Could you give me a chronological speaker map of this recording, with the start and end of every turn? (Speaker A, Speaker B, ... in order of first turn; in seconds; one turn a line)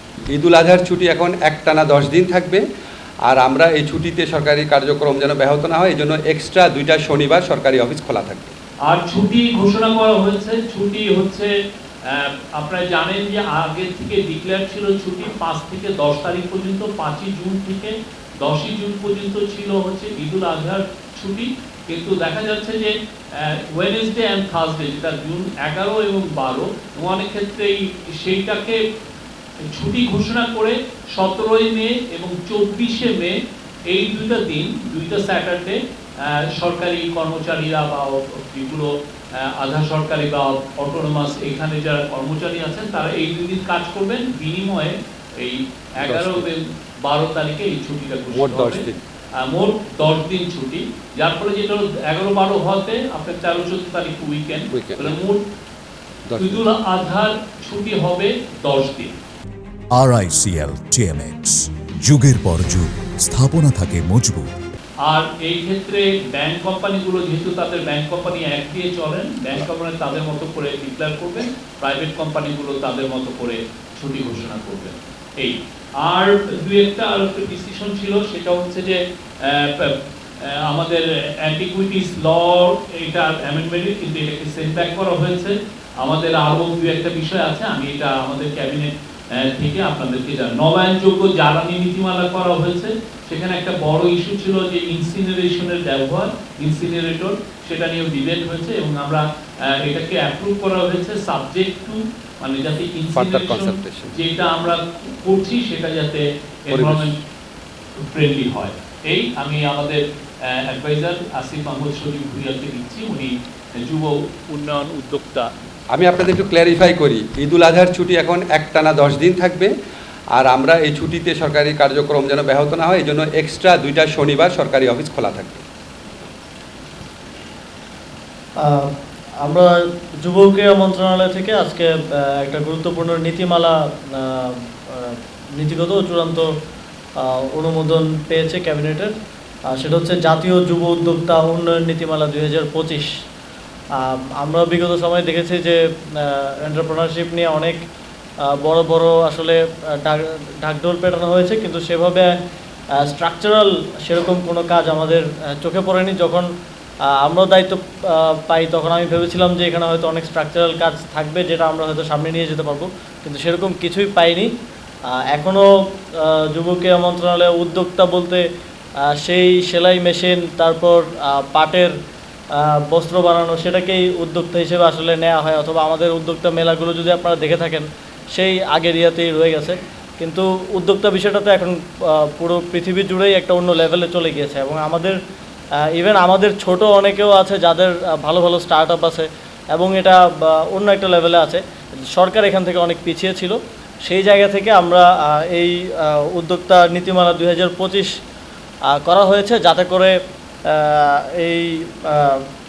Speaker A: 0.3-2.6
Speaker A: 3.3-8.5
Speaker B: 8.9-11.5
Speaker B: 12.1-28.8
Speaker B: 29.7-33.3
Speaker B: 33.9-48.9
Speaker A: 46.0-46.5
Speaker A: 48.3-49.0
Speaker B: 49.4-55.4
Speaker A: 54.7-55.1
Speaker A: 56.3-56.6
Speaker B: 56.4-59.1
Speaker C: 59.9-64.5
Speaker B: 65.0-107.2
Speaker A: 103.2-104.1
Speaker A: 106.7-107.1
Speaker B: 108.0-115.5
Speaker A: 115.9-119.7
Speaker A: 120.3-125.6
Speaker D: 128.6-128.9
Speaker D: 129.4-129.7
Speaker D: 130.2-136.5
Speaker D: 137.2-139.1
Speaker D: 139.7-143.1
Speaker D: 144.0-147.8
Speaker D: 148.4-152.3
Speaker D: 153.0-156.4
Speaker D: 157.1-164.5
Speaker D: 165.1-168.4
Speaker D: 169.2-171.9
Speaker D: 172.6-185.2
Speaker D: 185.9-198.1
Speaker D: 198.9-200.1
Speaker D: 200.7-202.4